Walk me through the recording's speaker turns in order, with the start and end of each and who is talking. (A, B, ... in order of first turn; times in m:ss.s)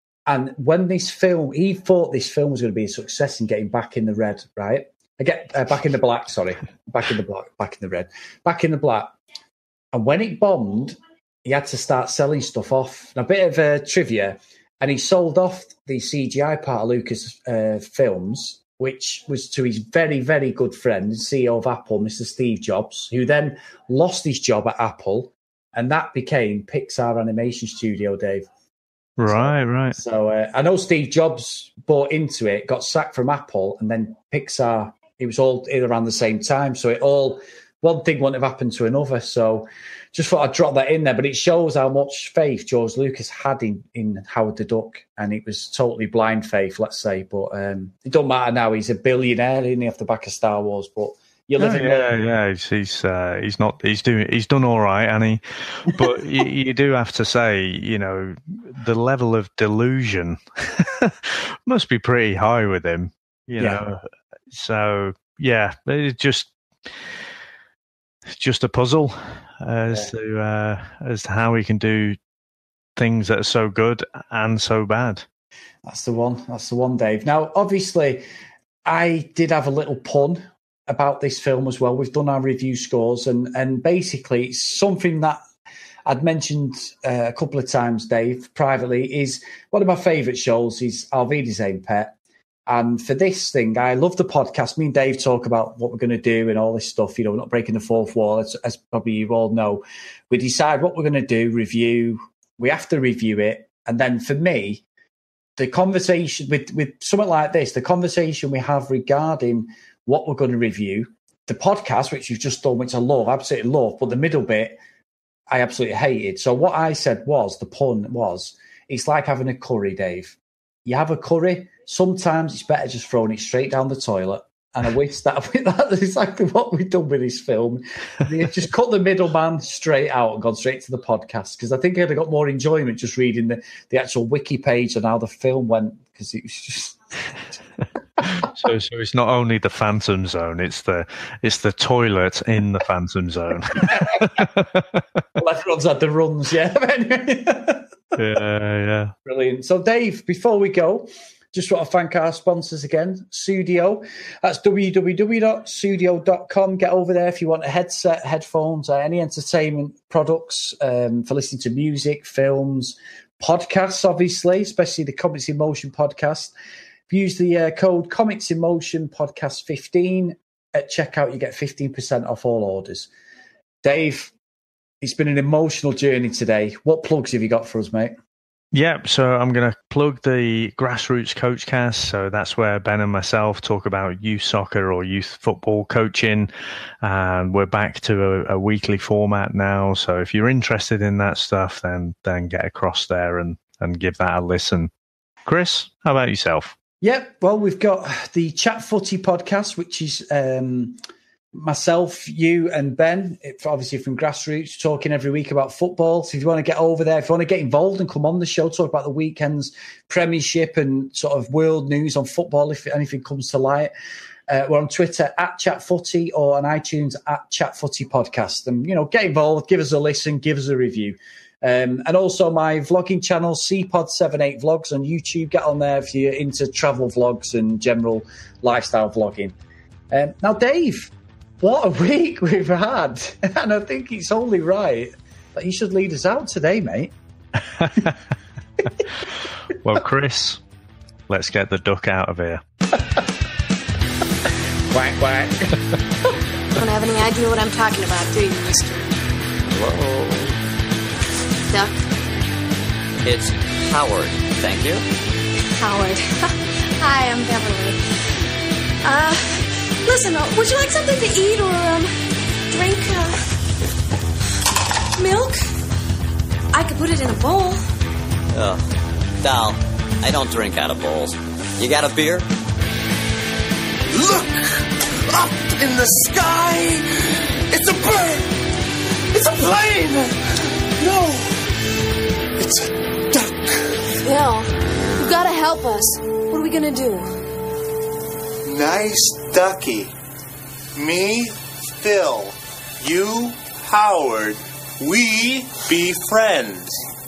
0:00.2-0:09.1 A
0:09.9-0:28.5 A
0:29.2-0:30.0 B
0:29.3-0:52.1 A
0:51.6-1:06.5 B
1:08.4-1:12.2 B
1:13.0-1:15.2 B
1:15.8-1:18.2 A
1:18.8-1:25.4 A
1:26.0-1:32.1 A
1:32.7-1:44.8 A
1:45.6-1:54.8 A
1:55.5-2:17.0 A
2:18.2-2:25.2 B
2:23.7-2:24.4 A
2:25.4-2:27.9 A
2:28.2-2:29.1 B
2:29.2-2:46.5 A
2:47.1-2:53.1 A
2:53.8-2:54.3 A
2:55.0-2:58.1 A
2:58.7-3:06.5 B
3:07.0-3:14.9 B
3:15.4-3:16.8 B
3:17.0-3:21.0 A
3:21.5-3:33.9 A
3:34.5-3:49.6 A
3:50.1-3:57.1 A
3:57.8-3:58.1 B
3:59.7-4:00.6 B
4:01.3-4:02.6 B
4:04.9-4:05.8 A
4:06.7-4:09.2 C
4:09.7-4:10.6 D
4:13.2-4:15.0 D
4:15.7-4:18.4 C
4:19.0-4:22.1 C
4:22.7-4:23.4 C
4:25.1-4:25.7 C
4:26.7-4:27.8 C
4:28.5-4:28.8 D
4:29.4-4:32.4 D
4:34.1-4:38.6 E
4:39.3-4:41.7 E
4:42.6-4:44.1 E
4:44.2-4:47.4 C
4:48.6-4:50.1 E
4:50.9-4:56.9 E